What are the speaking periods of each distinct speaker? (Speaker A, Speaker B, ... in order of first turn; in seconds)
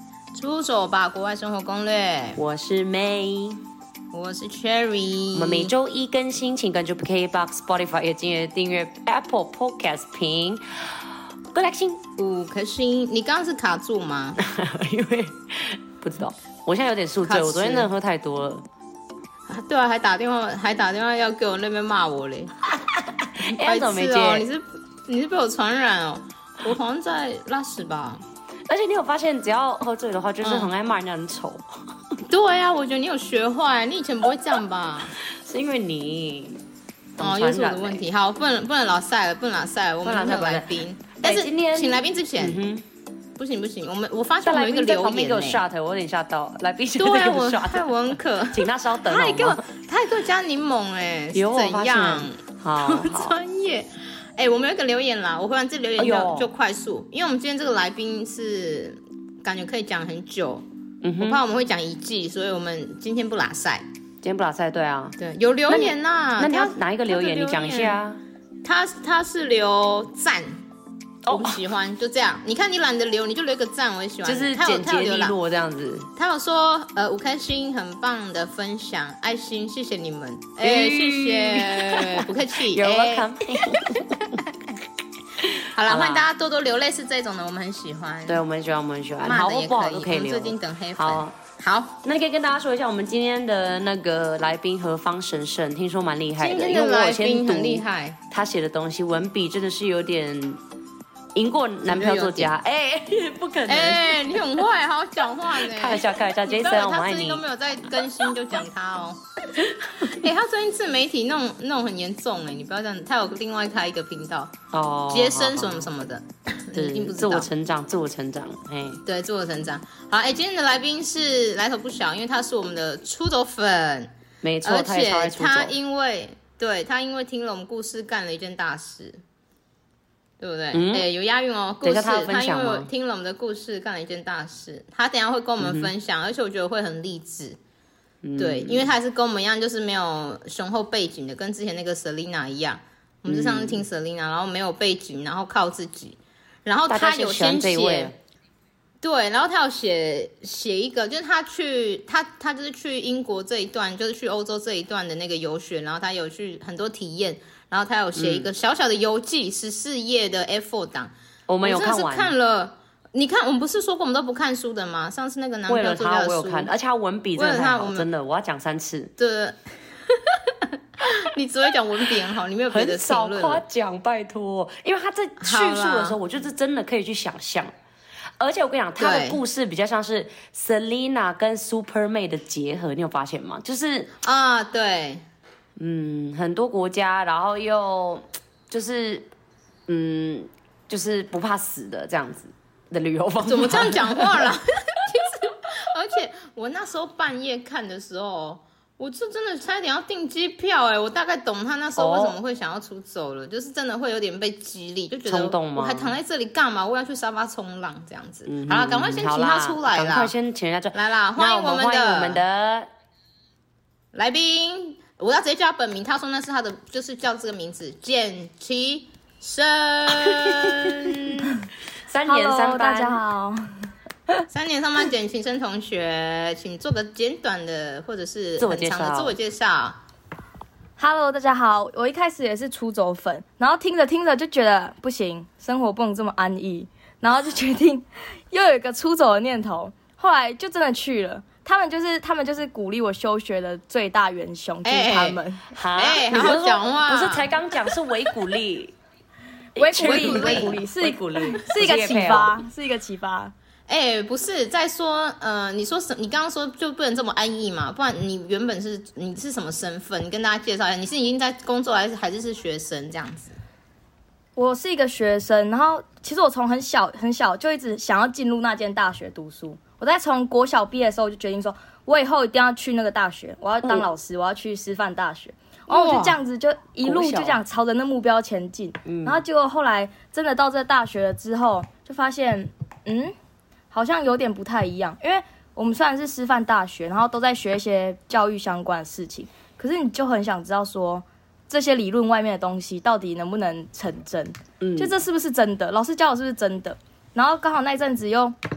Speaker A: 0.3-2.4, 4.1-5.7, 12.2-14.4, 17.2-17.9, 19.5-22.5, 23.6-28.2, 30.4-30.7, 32.3-35.1, 37.2-42.6, 43.4-45.6, 47.0-60.6, 61.2-63.8, 65.2-68.0, 68.6-70.6, 71.3-75.3, 76.2-84.0, 85.5-88.4, 89.2-92.0, 96.4-98.2, 101.9-102.5, 103.7-109.2, 110.0-114.6, 115.1-117.5, 119.0-124.1, 124.6-129.2, 130.4-137.6, 138.4-148.1, 149.0-166.7, 167.3-168.1, 169.2-173.6, 175.4-176.2, 179.0-179.4, 184.2-185.2, 193.4-210.3, 210.9-212.4, 214.1-221.4, 224.5-230.0, 244.8-245.4, 245.9-247.5, 250.0-250.8, 253.9-263.6, 275.9-276.4
Speaker B: 2.4-3.6, 5.3-12.0, 14.4-18.6, 22.7-24.5, 28.7-31.6, 35.2-36.6, 37.2-38.0, 40.0-42.8, 44.4-49.6, 51.3-53.4, 56.0-56.5, 61.0-61.4, 64.2-65.2, 65.7-68.2, 71.2-71.6, 74.2-76.1, 80.6-84.4, 85.4-86.3, 88.3-91.3, 92.0-100.6, 101.3-104.6, 105.5-107.4, 109.5-110.2, 114.7-115.9, 116.7-119.0, 124.4-125.7, 130.7-131.1, 131.8-132.9, 135.6-135.9, 138.2-138.9, 143.3-143.8, 146.9-148.1, 158.1-158.5, 161.5-162.3, 165.7-169.1, 172.7-177.7, 178.4-184.1, 185.8-189.3, 189.9-194.5, 201.9-202.4, 205.2-206.1, 208.4-212.9, 220.2-221.3, 222.1-223.2, 228.6-229.4, 245.7-248.9, 249.8-252.6, 277.0-277.6, 279.1-279.4, 294.8-295.1
Speaker C: 222.2-223.7, 231.0-245.7, 249.8-253.5, 264.6-283.3, 283.9-298.6